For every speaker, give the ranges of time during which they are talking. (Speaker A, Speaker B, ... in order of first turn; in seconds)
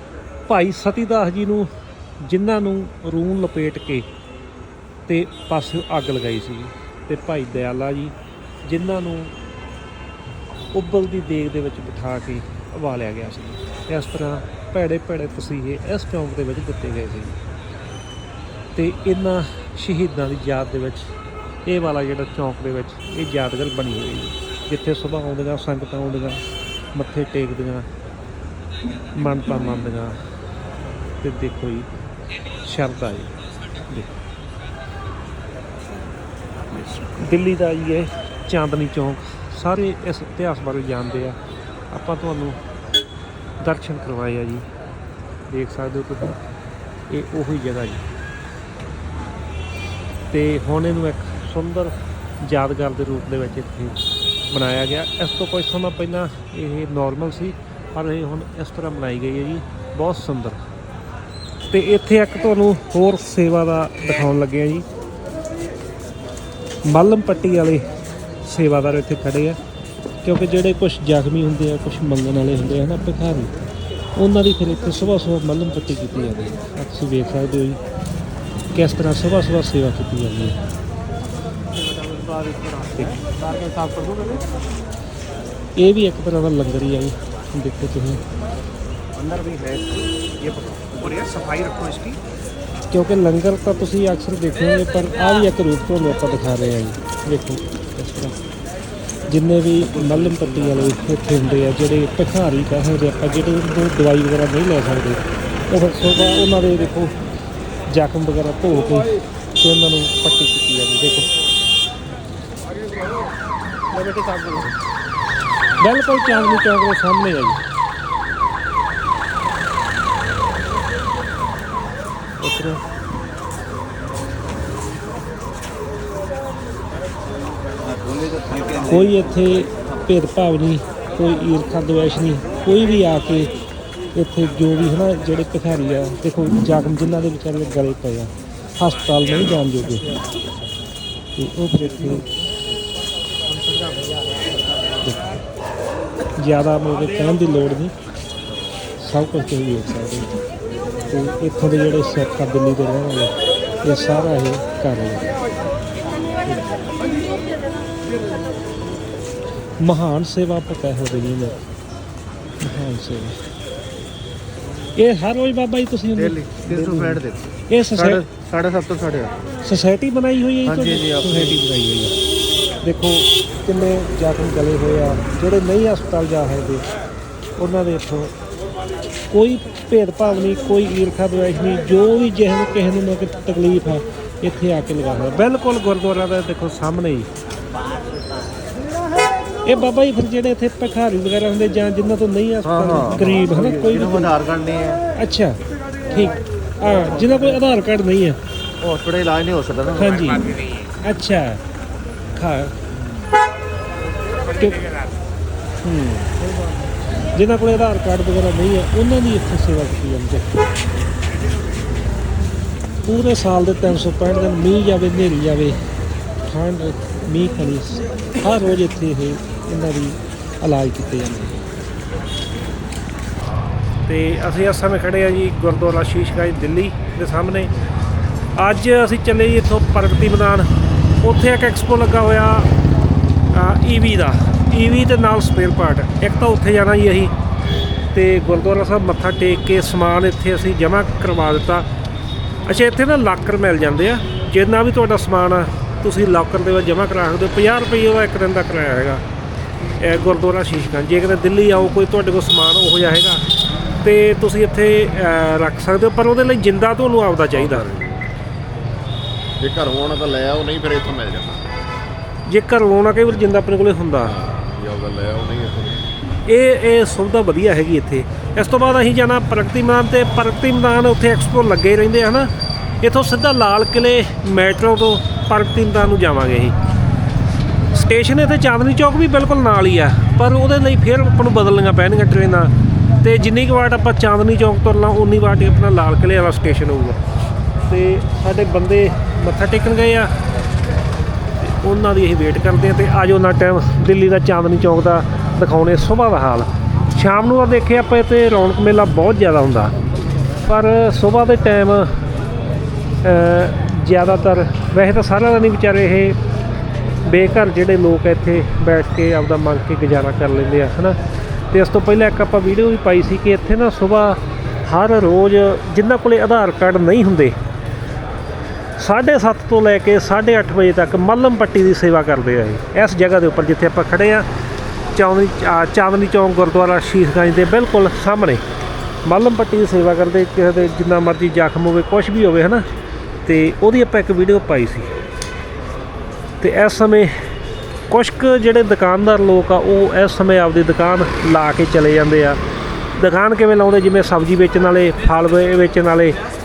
Speaker A: 0.5-1.7, 2.2-4.1, 5.1-8.2, 8.7-9.3, 10.7-17.4, 18.8-21.1, 21.6-26.4, 26.9-27.9, 29.1-30.2, 31.2-31.9, 32.6-33.4, 33.9-34.1, 36.7-41.4, 41.9-42.6, 43.6-44.7, 45.5-46.4, 47.1-48.0, 50.3-60.6, 61.7-64.8, 66.9-67.8, 68.5-69.6, 70.2-73.5, 74.2-77.8, 78.7-80.6, 85.8-88.2, 92.9-98.4, 99.3-107.2, 107.9-111.3, 113.9-114.7, 115.8-117.6, 122.4-122.8, 128.8-133.5, 134.2-140.2, 141.4-142.3, 145.0-145.3, 146.4-147.9, 149.0-150.3, 151.1-155.4, 156.4-156.7, 159.8-161.6, 162.6-163.4, 164.9-168.2, 169.6-172.2, 172.8-176.8, 177.6-178.3, 179.3-187.3, 189.7-194.3, 195.2-198.4, 199.9-201.6, 202.3-202.8, 204.5-204.9, 205.8-206.4, 207.2-210.6, 213.1-215.8, 216.5-221.6, 224.1-227.7, 228.6-230.7, 231.2-232.7, 233.5-237.3, 238.1-241.9, 242.7-249.2, 250.0-253.4, 254.0-257.9, 262.5-264.4, 266.5-272.5, 273.0-276.8, 277.9-282.7, 283.2-287.2, 287.9-290.3, 291.6-299.9, 300.6-302.1, 303.2-306.4, 307.2-311.2, 311.7-317.6, 319.0-324.5, 325.1-328.6, 329.3-332.9, 333.4-335.1, 336.6-337.3, 338.1-342.6, 343.2-346.4
Speaker B: 81.7-84.5, 89.1-92.2, 100.4-100.7, 128.0-128.8, 143.8-144.2, 166.2-169.4, 170.7-171.6, 192.6-195.0, 198.8-200.4
Speaker C: 257.5-258.3, 259.6-261.7, 264.2-266.0